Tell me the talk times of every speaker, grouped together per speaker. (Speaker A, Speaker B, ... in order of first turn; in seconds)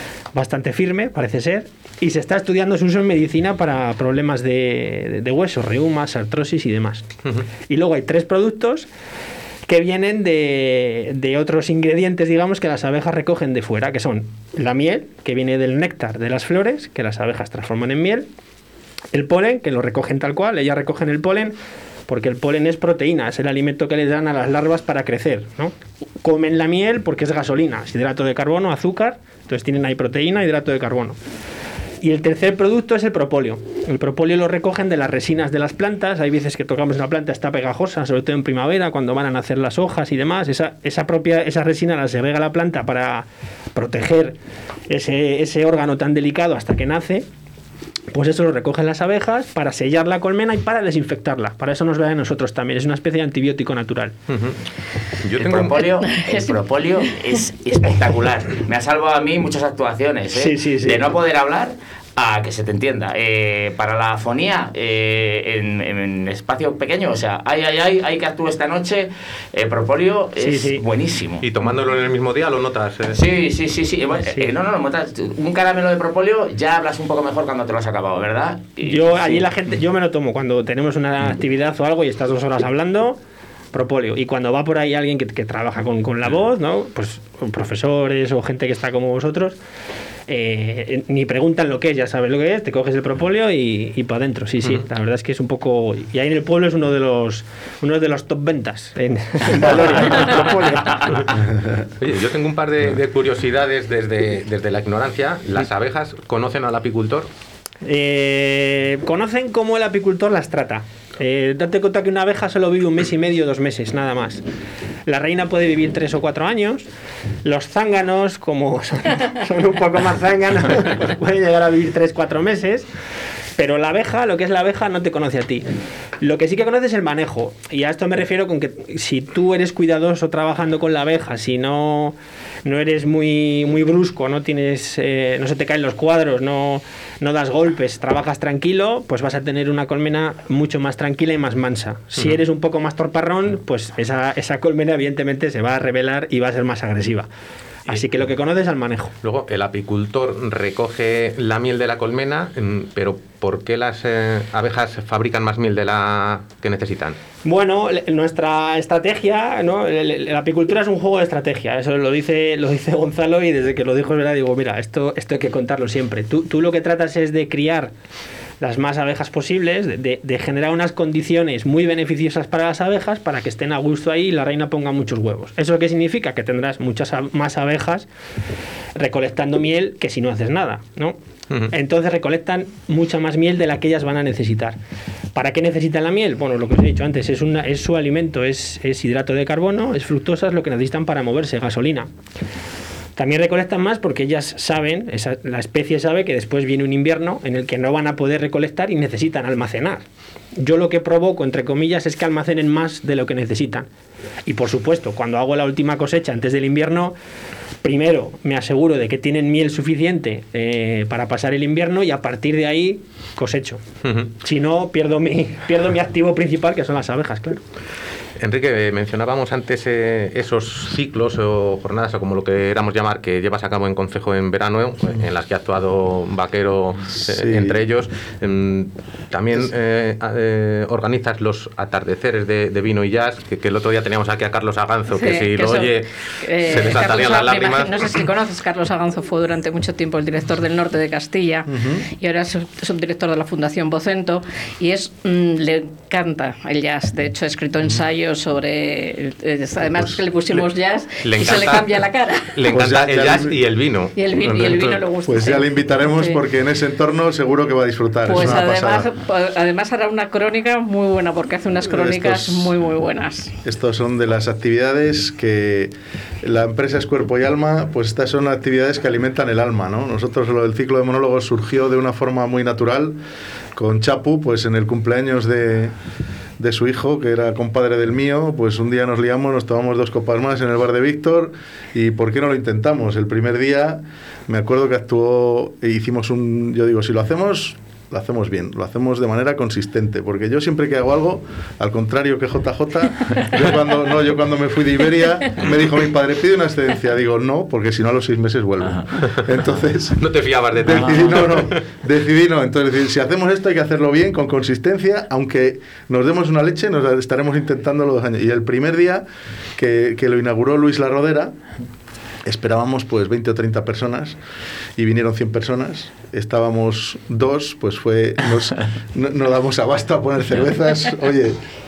Speaker A: 0.3-7.1, 7.7-8.9, 9.7-18.3, 19.1-21.6, 22.1-31.2, 32.0-44.4, 44.9-47.3, 48.1-54.1, 60.3-61.0, 70.4-70.8, 78.8-83.2, 83.7-89.6, 90.3-101.2, 107.8-114.4, 115.1-116.9, 117.4-122.9, 123.6-125.7, 126.2-147.3, 147.9-149.1, 157.4-167.9, 168.6-178.1, 179.0-181.2, 181.7-184.8, 185.3-192.1, 193.2-200.1, 200.6-203.9, 204.5-207.2, 207.8-213.8, 214.4-217.6
Speaker B: 54.3-54.6, 55.2-55.9, 71.4-73.2, 102.0-107.3, 149.2-157.2, 214.1-214.3, 218.4-238.1, 251.2-255.0, 300.2-301.8
Speaker C: 55.4-71.5, 73.1-79.4
Speaker D: 56.1-56.5, 235.1-252.7, 254.2-256.4, 258.3-263.6
Speaker E: 227.2-227.8, 241.7-242.1, 252.7-253.6, 255.3-259.1, 261.9-262.7, 263.6-273.2, 273.8-275.9, 276.6-300.2, 300.8-309.2, 309.8-311.6, 312.4-314.4, 315.0-321.6